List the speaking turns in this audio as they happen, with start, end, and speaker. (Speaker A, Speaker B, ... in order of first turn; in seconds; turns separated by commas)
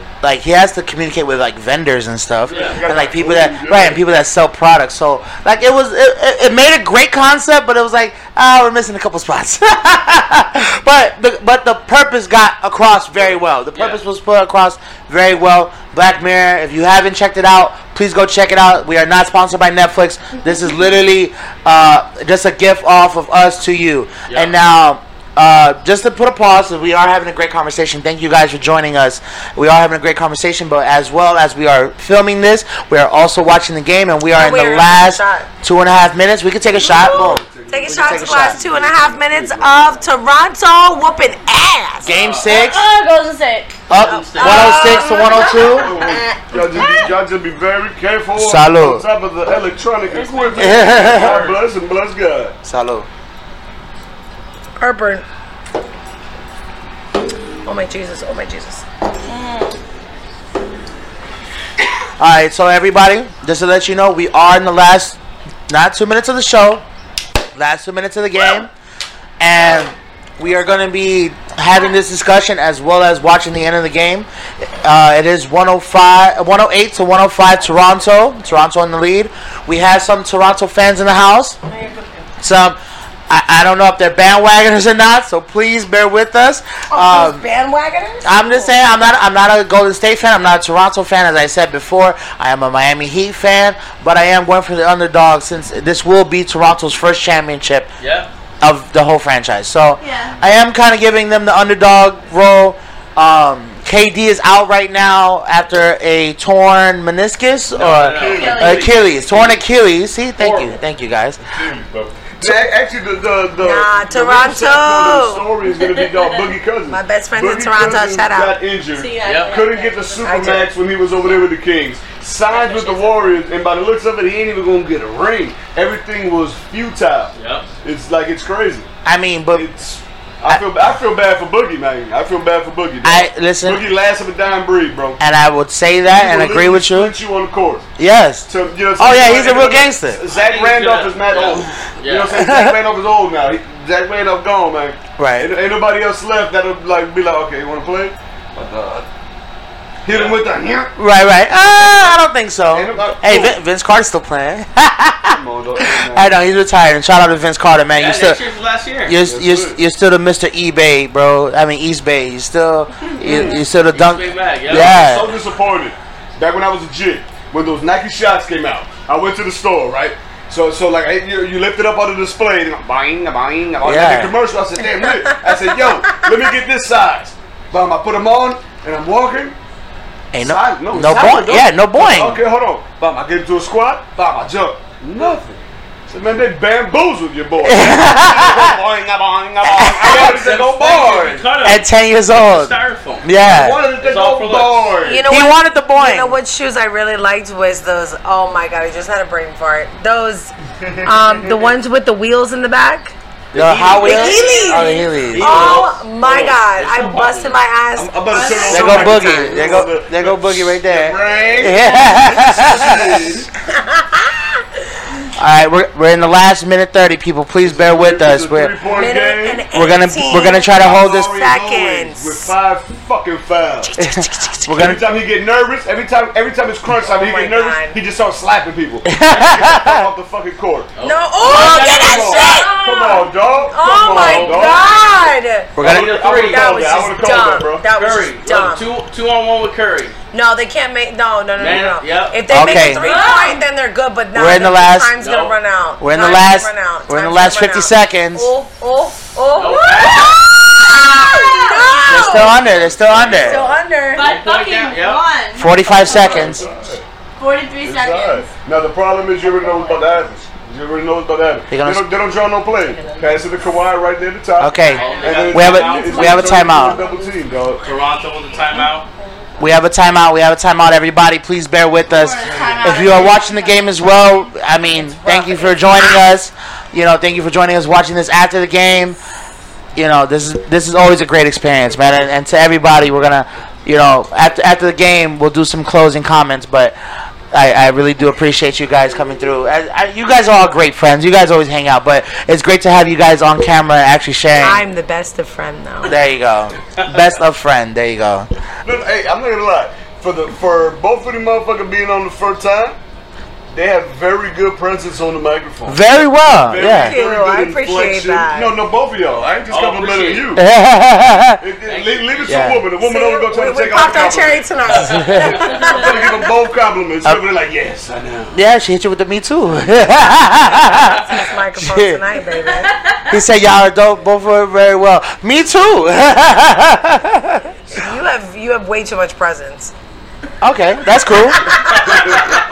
Speaker A: 0.2-38.6, Speaker B: 2.5-4.0, Speaker C: 2.5-2.8, Speaker C: 13.7-14.0, Speaker C: 24.3-24.5, Speaker D: 34.3-35.5, Speaker B: 36.7-40.0, Speaker D: 36.9-42.1, Speaker A: 42.0-42.9, Speaker C: 42.0-42.5, Speaker E: 42.4-43.8, Speaker A: 43.9-46.0, Speaker C: 43.9-45.1, Speaker D: 44.3-45.7, Speaker E: 44.3-47.1, Speaker B: 45.7-52.5, Speaker A: 48.4-49.0, Speaker E: 50.1-50.9, Speaker A: 50.5-51.4, Speaker C: 50.7-51.6, Speaker A: 52.6-53.1, Speaker D: 54.8-55.2, Speaker D: 57.6-58.8, Speaker E: 59.3-59.7, Speaker A: 62.2-66.8, Speaker A: 67.5-68.7, Speaker A: 69.4-74.3, Speaker A: 74.8-81.6, Speaker D: 81.7-82.2, Speaker A: 82.4-82.8, Speaker A: 83.3-87.5, Speaker D: 86.9-88.7, Speaker A: 88.2-97.9, Speaker C: 98.0-98.3, Speaker A: 98.6-111.4, Speaker E: 100.0-100.3, Speaker C: 107.7-108.9, Speaker B: 108.0-108.9, Speaker E: 108.4-108.8, Speaker C: 110.4-110.7, Speaker B: 111.4-128.9, Speaker D: 113.6-115.5, Speaker D: 116.9-118.6, Speaker E: 119.0-120.3, Speaker C: 119.2-119.6, Speaker D: 120.2-120.7, Speaker C: 127.3-127.7, Speaker A: 129.0-129.7, Speaker B: 129.5-135.2, Speaker A: 133.0-133.8, Speaker A: 135.2-137.2, Speaker B: 136.1-137.8, Speaker A: 138.0-140.2, Speaker B: 138.5-149.1, Speaker C: 140.3-142.4, Speaker A: 142.3-142.8, Speaker A: 145.2-145.5, Speaker B: 150.0-150.9, Speaker C: 150.1-150.4, Speaker A: 151.0-158.4, Speaker B: 152.7-153.5, Speaker B: 155.3-156.3, Speaker C: 157.9-159.2, Speaker A: 159.1-165.4, Speaker B: 159.2-159.8, Speaker C: 163.9-165.0, Speaker B: 164.7-179.6, Speaker A: 173.8-174.3, Speaker A: 180.3-182.4, Speaker B: 180.4-191.5, Speaker A: 187.6-188.8, Speaker A: 189.6-190.4, Speaker C: 190.0-193.3, Speaker A: 191.6-193.9, Speaker B: 193.4-195.3, Speaker C: 194.0-195.1, Speaker D: 195.0-200.5, Speaker A: 195.2-196.4, Speaker B: 200.8-201.7, Speaker D: 201.0-203.1, Speaker C: 203.5-207.6, Speaker A: 203.5-205.8, Speaker D: 204.0-209.8, Speaker B: 205.5-206.6, Speaker B: 207.9-213.5, Speaker E: 208.3-208.7, Speaker A: 208.7-213.2, Speaker A: 215.4-218.7, Speaker B: 217.6-219.7, Speaker D: 218.8-222.5, Speaker A: 219.7-221.3, Speaker B: 220.6-223.9, Speaker D: 223.8-224.6, Speaker A: 224.0-225.0, Speaker B: 224.7-235.0, Speaker D: 226.9-228.0, Speaker A: 229.1-230.1, Speaker C: 230.9-232.7, Speaker D: 231.0-238.9, Speaker E: 232.3-233.3, Speaker C: 234.1-234.8, Speaker A: 235.8-236.2, Speaker C: 235.8-237.1, Speaker B: 235.8-237.9, Speaker C: 237.9-240.1, Speaker D: 240.3-252.6, Speaker C: 241.6-242.8, Speaker A: 242.5-243.1, Speaker E: 243.0-243.6, Speaker A: 244.3-245.1, Speaker C: 245.2-245.5, Speaker A: 246.0-248.5, Speaker C: 249.6-250.4, Speaker E: 250.1-252.1, Speaker A: 252.1-253.6, Speaker B: 252.4-253.7, Speaker C: 252.7-253.6, Speaker D: 253.4-254.2, Speaker E: 254.1-256.6, Speaker C: 254.2-255.2, Speaker A: 255.6-256.6, Speaker B: 255.8-257.0, Speaker E: 257.4-258.5, Speaker B: 257.8-267.9, Speaker E: 259.5-260.0, Speaker A: 261.7-262.1, Speaker A: 264.6-267.0, Speaker E: 264.8-265.5, Speaker C: 264.9-266.8, Speaker E: 266.8-267.2, Speaker C: 267.8-269.1, Speaker A: 269.6-279.2, Speaker E: 272.1-274.4, Speaker B: 272.5-273.1, Speaker D: 274.8-276.0, Speaker A: 279.9-286.9, Speaker A: 287.5-294.8, Speaker D: 294.6-296.1, Speaker A: 296.0-298.5, Speaker B: 298.8-302.9, Speaker B: 303.7-306.0, Speaker A: 305.9-307.2, Speaker B: 306.7-310.6, Speaker D: 306.8-308.8, Speaker C: 309.7-310.6, Speaker A: 310.6-311.6, Speaker B: 311.6-315.1, Speaker C: 311.8-312.6, Speaker A: 312.5-312.9, Speaker D: 313.0-316.2, Speaker A: 314.9-315.6, Speaker C: 315.4-316.2, Speaker E: 315.6-315.9, Speaker B: 315.7-318.6, Speaker A: 318.5-322.2, Speaker D: 321.3-322.9, Speaker A: 323.3-327.7, Speaker D: 327.9-329.9, Speaker A: 330.6-331.6, Speaker B: 332.1-332.5